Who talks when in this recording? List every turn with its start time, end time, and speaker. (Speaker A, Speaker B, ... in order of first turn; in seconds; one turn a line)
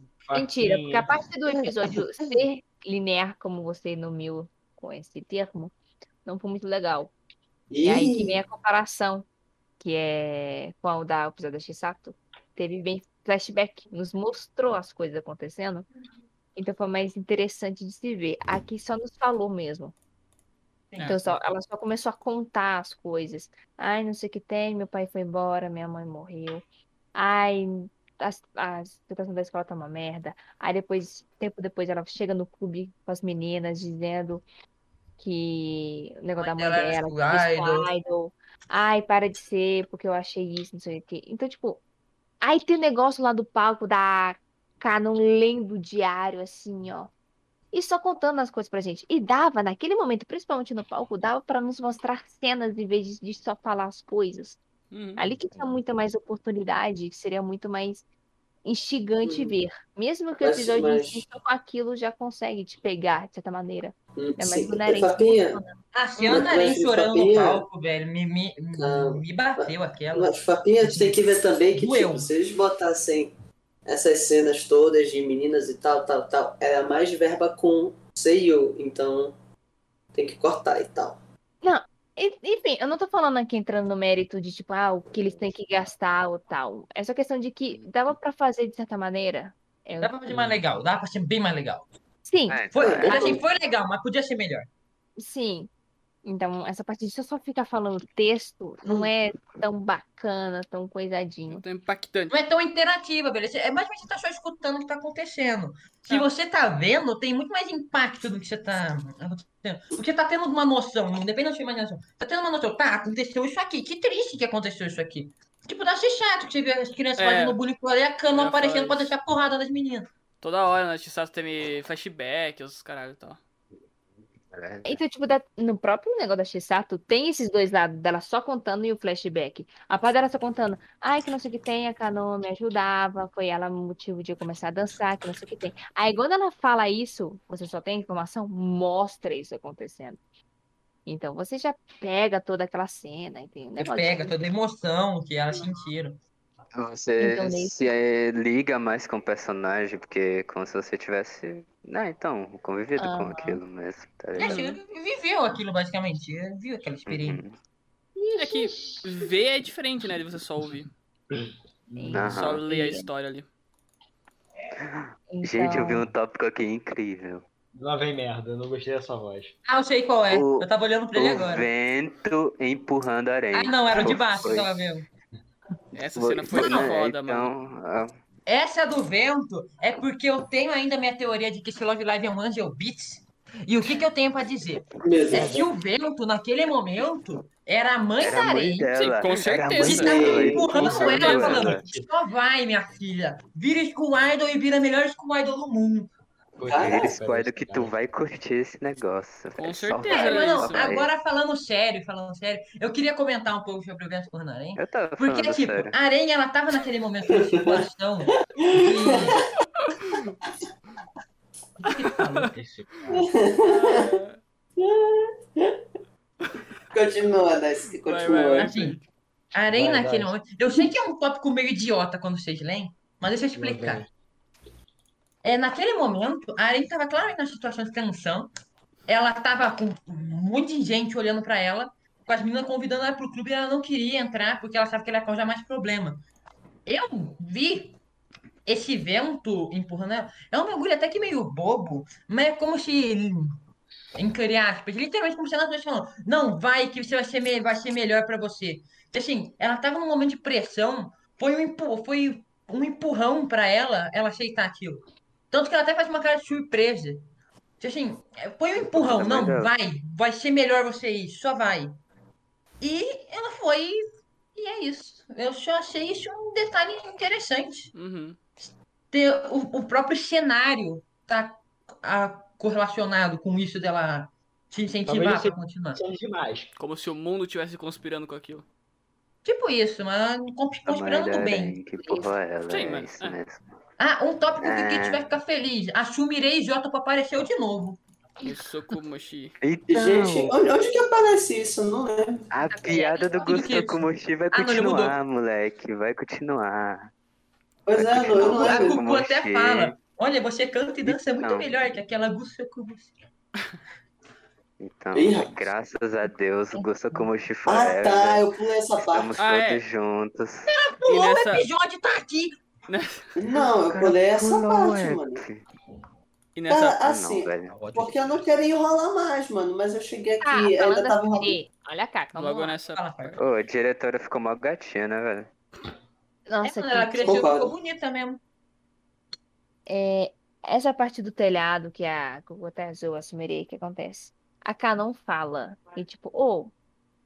Speaker A: 0.2-1.1
Speaker B: 0.3-5.7
Speaker B: 6.2-7.1
Speaker C: 7.7-8.4
Speaker B: 7.8-9.3
Speaker B: 9.8-15.9
Speaker B: 16.6-19.9
Speaker D: 20.9-21.4
Speaker B: 21.0-26.6
Speaker B: 27.1-34.4
Speaker B: 35.2-41.8
Speaker D: 36.4-37.9
Speaker B: 42.4-47.1
Speaker B: 47.7-54.6
Speaker E: 54.9-55.2
Speaker B: 55.2-58.0
Speaker B: 58.6-66.5
Speaker C: 59.2-59.5
Speaker C: 60.4-61.2
Speaker C: 64.2-65.6
Speaker D: 65.9-71.2
Speaker C: 66.3-67.7
Speaker C: 68.8-73.3
Speaker D: 71.7-72.3
Speaker C: 73.9-79.3
Speaker C: 80.1-81.2
Speaker B: 81.6-90.2
Speaker D: 90.0-91.9
Speaker A: 90.3-90.6
Speaker B: 92.2-92.7
Speaker F: 92.5-93.4
Speaker D: 92.7-94.7
Speaker C: 92.8-93.4
Speaker B: 95.2-95.7
Speaker B: 96.2-101.6
Speaker E: 101.5-102.3
Speaker D: 102.3-120.1
Speaker E: 117.2-117.6
Speaker E: 118.3-119.1
Speaker E: 120.4-123.4
Speaker F: 124.5-125.0
Speaker B: 124.8-140.2
Speaker B: 141.1-144.4
Speaker D: 143.8-146.2
Speaker F: 146.8-154.7
Speaker B: 147.2-147.9
Speaker B: 153.0-153.6
Speaker D: 154.4-157.4
Speaker E: 154.4-154.7
Speaker F: 157.1-157.6
Speaker B: 158.2-158.7
Speaker E: 158.4-160.9
Speaker A: 161.3-162.4
Speaker B: 162.0-163.1
Speaker F: 162.1-162.6
Speaker E: 162.3-163.5
Speaker F: 164.8-167.4
Speaker B: 165.3-166.1
Speaker A: 167.8-169.6
Speaker D: 169.7-171.7
Speaker F: 170.3-174.8
Speaker D: 173.5-175.1
Speaker E: 175.9-177.5
Speaker F: 176.2-178.2
Speaker D: 176.5-176.9
Speaker D: 178.5-188.9
Speaker C: 185.0-185.6
Speaker A: 185.3-185.6
Speaker F: 188.2-191.9
Speaker E: 188.9-190.2
Speaker C: 189.8-191.0
Speaker D: 189.8-196.1
Speaker E: 190.9-191.7
Speaker A: 191.6-192.1
Speaker A: 196.6-197.9
Speaker C: 196.7-197.1
Speaker F: 196.7-201.1
Speaker E: 199.6-200.9
Speaker D: 200.0-209.4
Speaker F: 204.8-205.9
Speaker C: 207.4-207.8
Speaker C: 208.6-209.4
Speaker E: 209.9-210.3
Speaker D: 211.8-212.5
Speaker A: 212.5-213.3
Speaker C: 213.2-214.1
Speaker E: 213.6-214.4
Speaker C: 214.8-215.8
Speaker C: 216.9-218.7
Speaker E: 218.0-219.0
Speaker D: 218.6-219.0
Speaker D: 219.5-224.0
Speaker A: 219.7-220.3
Speaker A: 223.6-224.1
Speaker D: 225.4-228.5
Speaker D: 229.1-236.2
Speaker D: 236.9-238.0
Speaker D: 238.7-243.6
Speaker D: 244.2-257.2
Speaker D: 257.8-261.9
Speaker F: 258.8-259.7
Speaker D: 262.8-264.0
Speaker D: 264.6-267.9
Speaker E: 267.9-268.4
Speaker D: 269.1-276.0
Speaker A: 275.1-276.7
Speaker E: 276.8-278.6
Speaker D: 279.4-281.8
Speaker F: 280.9-283.7
Speaker B: 282.0-282.3
Speaker E: 282.7-283.4
Speaker D: 284.0-288.0
Speaker F: 284.6-285.3
Speaker E: 288.4-289.6
Speaker F: 289.6-290.6
Speaker C: 289.9-292.5
Speaker F: 292.5-297.1
Speaker B: 292.7-293.9
Speaker D: 293.4-295.2
Speaker C: 297.9-299.0
Speaker F: 297.9-300.0
Speaker D: 298.5-303.1
Speaker F: 301.1-301.8
Speaker F: 304.8-308.5
Speaker C: 305.1-305.6
Speaker C: 307.7-309.3
Speaker F: 309.0-310.7
Speaker E: 309.4-309.8
Speaker D: 310.7-312.6
Speaker E: 311.1-311.7
Speaker E: 312.9-313.3
Speaker C: 313.4-315.4
Speaker F: 313.7-315.6
Speaker E: 316.6-317.0
Speaker C: 316.7-321.6
Speaker F: 317.0-317.8
Speaker A: 317.7-318.5
Speaker B: 320.4-322.8
Speaker E: 322.3-323.4
Speaker D: 322.9-323.4
Speaker F: 323.4-325.5
Speaker B: 326.5-327.4
Speaker D: 326.6-328.4
Speaker C: 327.2-327.7
Speaker B: 329.9-336.7